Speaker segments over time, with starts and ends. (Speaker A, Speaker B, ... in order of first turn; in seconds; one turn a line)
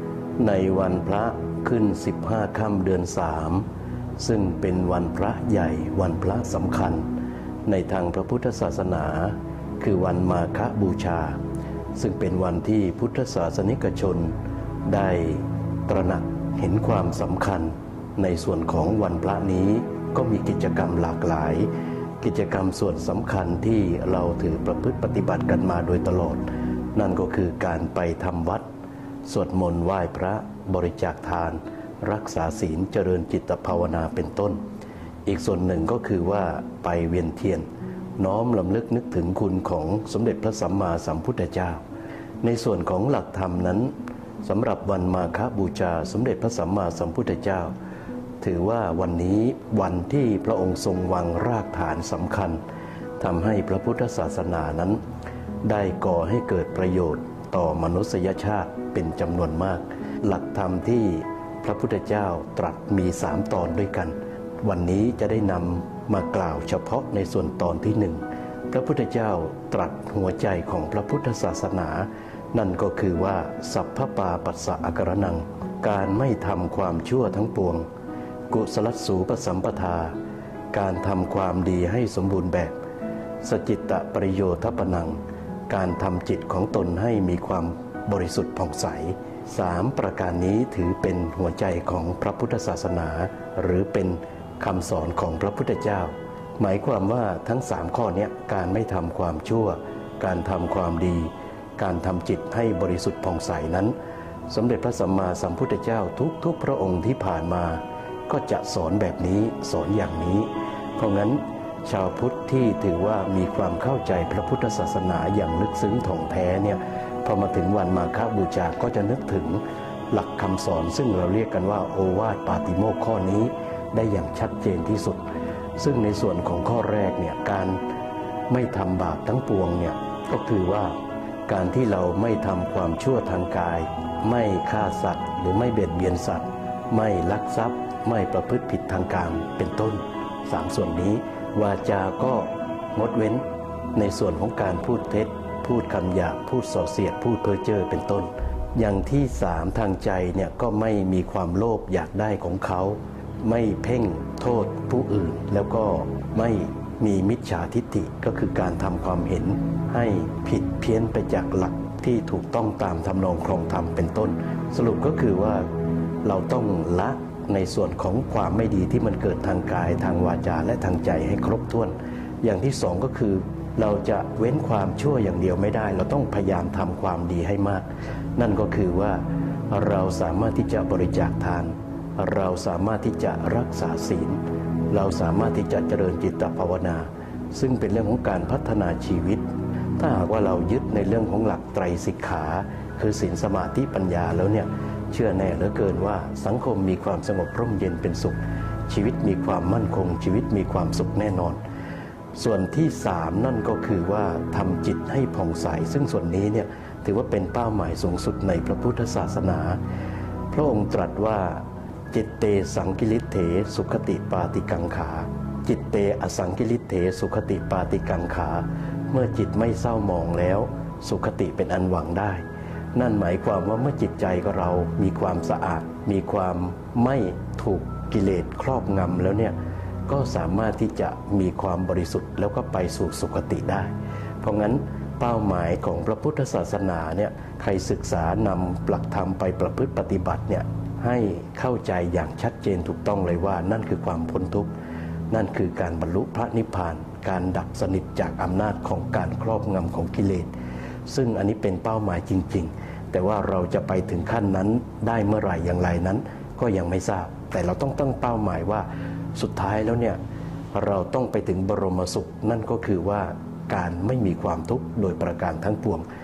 Speaker A: 0.4-3.7
Speaker A: 4.2-7.1
Speaker A: 7.7-11.4
Speaker A: 12.0-21.7
Speaker A: 22.2-28.7
Speaker A: 29.3-34.6
Speaker A: 35.3-37.7
Speaker A: 38.2-41.8
Speaker A: 42.4-47.7
Speaker A: 48.4-52.6
Speaker A: 53.2-55.0
Speaker A: 55.6-77.9
Speaker A: 78.5-80.2
Speaker A: 80.7-82.8
Speaker A: 83.4-104.0
Speaker A: 104.5-127.8
Speaker A: 128.5-165.7
Speaker A: 166.2-201.6
Speaker A: 202.3-209.8
Speaker A: 210.5-222.4
Speaker A: 222.9-229.6
Speaker A: 230.1-244.7
Speaker A: 245.3-250.5
Speaker A: 251.1-260.2
Speaker A: 260.7-266.1